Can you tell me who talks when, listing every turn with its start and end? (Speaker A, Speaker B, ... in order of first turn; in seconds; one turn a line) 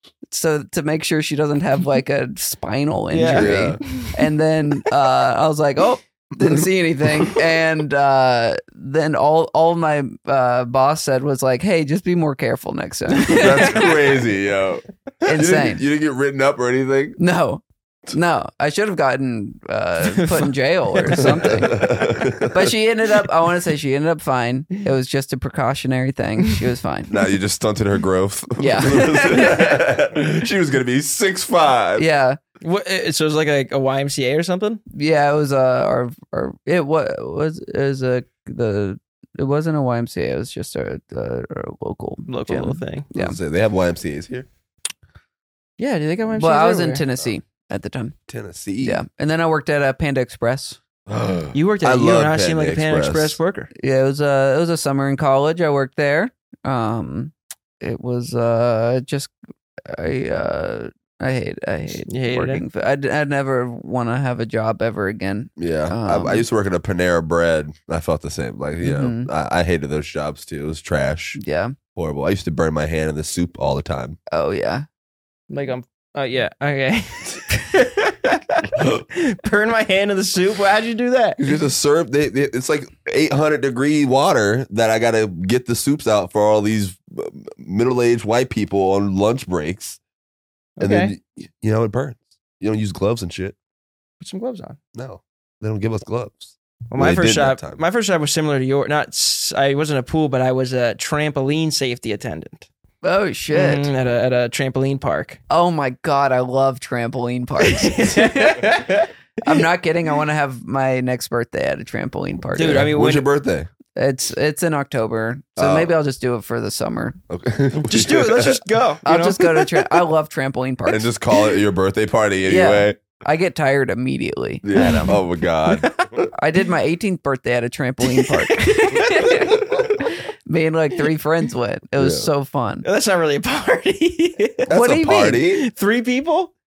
Speaker A: 0.2-14.2
Speaker B: 3.1-4.2
Speaker C: 3.3-3.8
Speaker C: 13.2-17.2
Speaker A: 15.2-15.8
Speaker A: 17.2-27.2
Speaker B: 20.0-21.5
Speaker C: 21.1-22.7
Speaker C: 27.1-32.0
Speaker A: 28.6-29.8
Speaker A: 32.0-32.4
Speaker B: 32.6-34.8
Speaker A: 34.9-43.4
Speaker B: 42.3-43.0
Speaker C: 43.1-44.5
Speaker B: 45.8-47.0
Speaker A: 46.3-48.1
Speaker C: 48.3-49.0
Speaker A: 48.8-50.8
Speaker C: 51.1-53.4
Speaker B: 51.5-53.7
Speaker A: 53.8-59.3
Speaker A: 59.9-66.5
Speaker B: 62.1-62.6
Speaker C: 65.6-71.4
Speaker A: 68.8-69.3
Speaker A: 71.4-71.7
Speaker C: 72.0-74.2
Speaker A: 74.3-74.8
Speaker B: 75.5-81.4
Speaker C: 81.4-90.0
Speaker B: 90.8-91.1
Speaker C: 90.8-93.5
Speaker B: 94.2-94.8
Speaker C: 94.9-97.8
Speaker B: 96.9-102.7
Speaker A: 103.0-103.9
Speaker B: 103.5-105.4
Speaker A: 105.5-108.8
Speaker B: 107.6-109.6
Speaker A: 109.4-112.9
Speaker B: 112.5-113.3
Speaker C: 112.7-113.7
Speaker A: 113.9-117.2
Speaker C: 115.6-115.9
Speaker C: 117.3-118.6
Speaker B: 117.8-119.9
Speaker A: 119.0-121.1
Speaker C: 120.9-123.0
Speaker A: 122.4-125.2
Speaker C: 124.6-126.3
Speaker B: 124.8-126.1
Speaker A: 126.3-132.8
Speaker B: 128.1-128.4
Speaker B: 128.9-129.5
Speaker C: 132.0-132.3
Speaker B: 132.8-134.7
Speaker C: 134.7-135.6
Speaker A: 134.7-135.4
Speaker B: 135.4-136.5